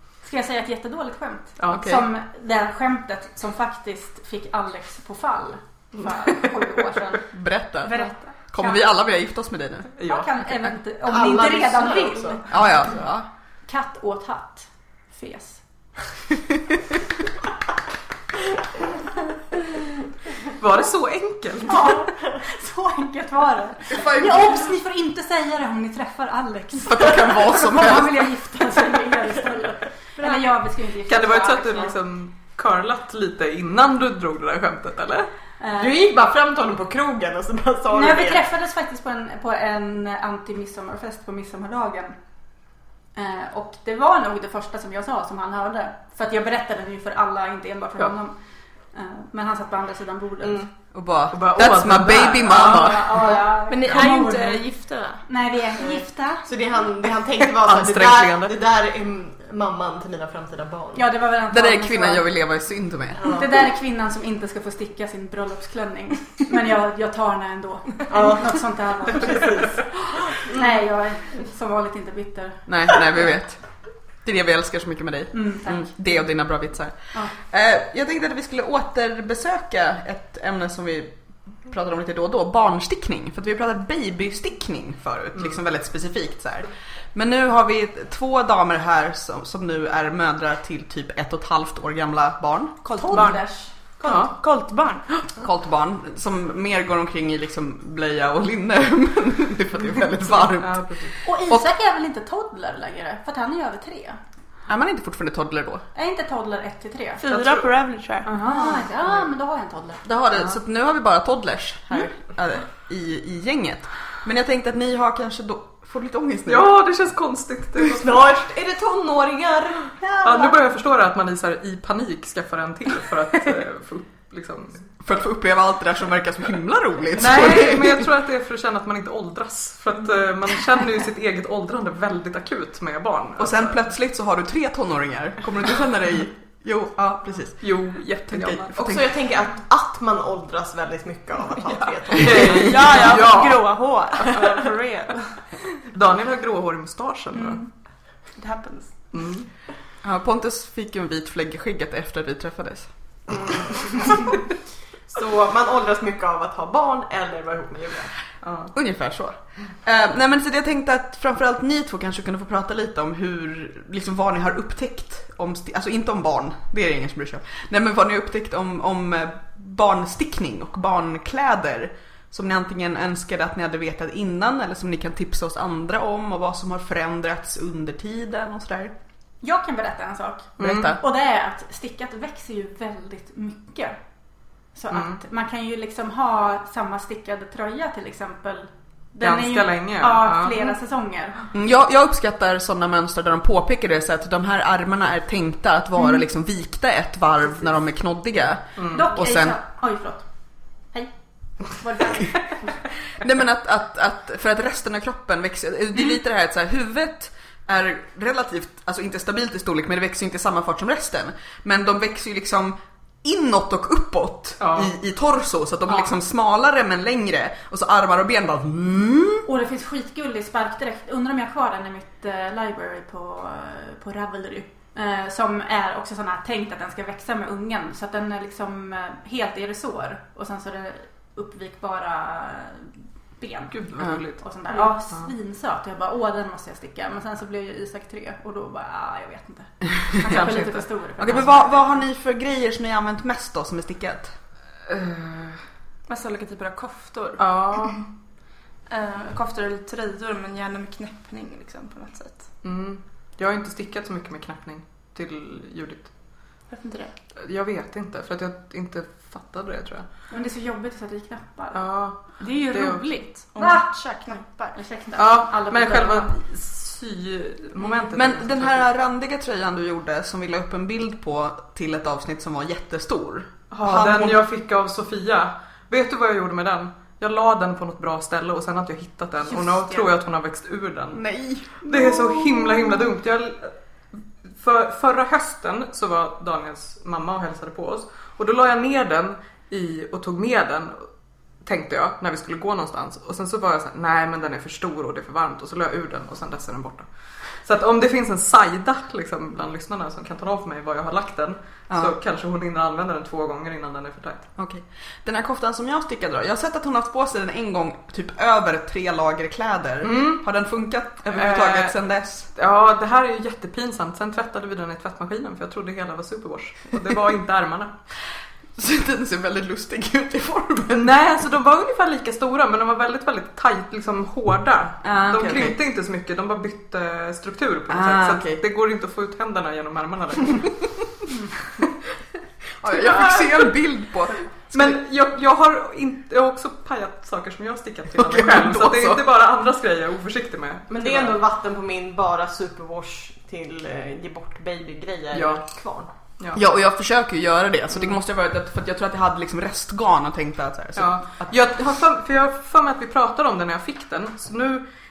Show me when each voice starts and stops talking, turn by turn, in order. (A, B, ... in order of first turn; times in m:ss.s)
0:00.2-0:07.3 A
0:01.6-0:01.9 B
0:01.7-0:02.0 C
0:07.3-0:09.9 C
0:07.8-0:08.8 A
0:10.0-0:10.3 B
0:10.0-0:12.6 A
0:11.1-0:12.4 D
0:12.5-0:13.3 C
0:13.7-0:15.6 A
0:20.6-0:22.0 B
0:21.7-0:32.0 A
0:23.9-0:24.7 C
0:26.8-0:28.2 C
0:31.1-0:35.3 B
0:35.6-0:35.9 A
0:35.8-0:38.4 D
0:37.9-0:42.2 A
0:43.2-0:48.4 A
0:48.9-0:50.7 A
0:50.9-0:53.3 C
0:51.3-0:53.2 B
0:52.5-0:54.6 A
0:53.7-0:55.3 E
0:55.3-0:56.5 A
0:56.4-1:01.0 D
0:57.6-0:58.6 B
1:01.0-1:02.3 A
1:01.5-1:03.3 C
1:03.2-1:03.4 D
1:03.2-1:13.1 A
1:08.1-1:08.6 D
1:09.2-1:09.7 D
1:12.7-1:13.6 C
1:14.2-1:33.3 C
1:15.3-1:16.2 A
1:32.8-1:35.0 E
1:32.9-1:33.7 A
1:34.0-1:34.3 B
1:35.3-1:41.6 C
1:40.4-1:41.2 B
1:41.2-1:44.2 A
1:44.7-1:45.8 C
1:46.0-1:47.3 A
1:47.2-1:48.3 E
1:47.3-1:47.6 B
1:48.2-1:50.1 A
1:50.0-1:56.7 C
1:56.5-1:58.2 B
1:57.9-1:59.9 D
2:00.0-2:00.6 A
2:00.2-2:04.9 B
2:05.0-2:08.1 C
2:07.2-2:13.8 B
2:13.4-2:19.1 C
2:17.6-2:19.0 B
2:18.8-2:23.0 D
2:22.1-2:23.7 B
2:22.2-2:23.0 C
2:22.4-2:25.4 E
2:25.9-2:27.6 B
2:27.4-2:29.1 E
2:29.1-2:29.5 B
2:30.0-2:32.9 C
2:35.1-2:38.1 D
2:38.4-2:38.7 B
2:38.7-2:58.9 C
2:59.4-3:04.0 A
3:00.6-3:01.0 B
3:00.6-3:01.0 C
3:04.7-3:11.4 A
3:04.9-3:05.2 B
3:09.2-3:10.7 B
3:11.5-3:19.6 C
3:18.8-3:19.0 B
3:18.8-3:20.3 A
3:20.9-3:22.7 A
3:23.2-3:39.5 C
3:34.6-3:34.9 B
3:39.4-3:53.8 A
3:53.7-3:54.5 B
3:54.4-4:02.0 A
4:00.3-4:00.8 B
4:01.2-4:04.4 C
4:04.9-4:05.6 B
4:06.1-4:08.0 E
4:07.4-4:08.1 B
4:08.9-4:12.5 E
4:12.6-4:16.5 B
4:16.7-4:17.1 E
4:17.4-4:20.1 B
4:20.3-4:21.8 A
4:21.7-4:23.0 B
4:22.4-4:24.8 E
4:23.6-4:24.0 A
4:24.7-4:26.4 A
4:25.2-4:28.8 B
4:28.1-4:34.5 C
4:33.7-4:43.7 B
4:39.7-4:40.0 A
4:41.1-4:41.8 C
4:44.5-4:51.1 B
4:51.6-5:04.5 B
5:01.9-5:02.2 C
5:04.6-5:12.5 C
5:10.0-5:10.4 B
5:11.3-5:12.0 B
5:12.5-5:17.9 B
5:18.8-5:21.0 C
5:20.9-5:31.0 B
5:25.0-5:25.8 C
5:27.9-5:28.6 C
5:32.8-5:35.0 C
5:32.9-5:33.8 B
5:34.7-5:41.4 B
5:38.1-5:39.3 C
5:40.9-5:46.1 D
5:45.3-5:45.7 B
5:46.5-5:51.5 C
5:51.0-5:54.8 B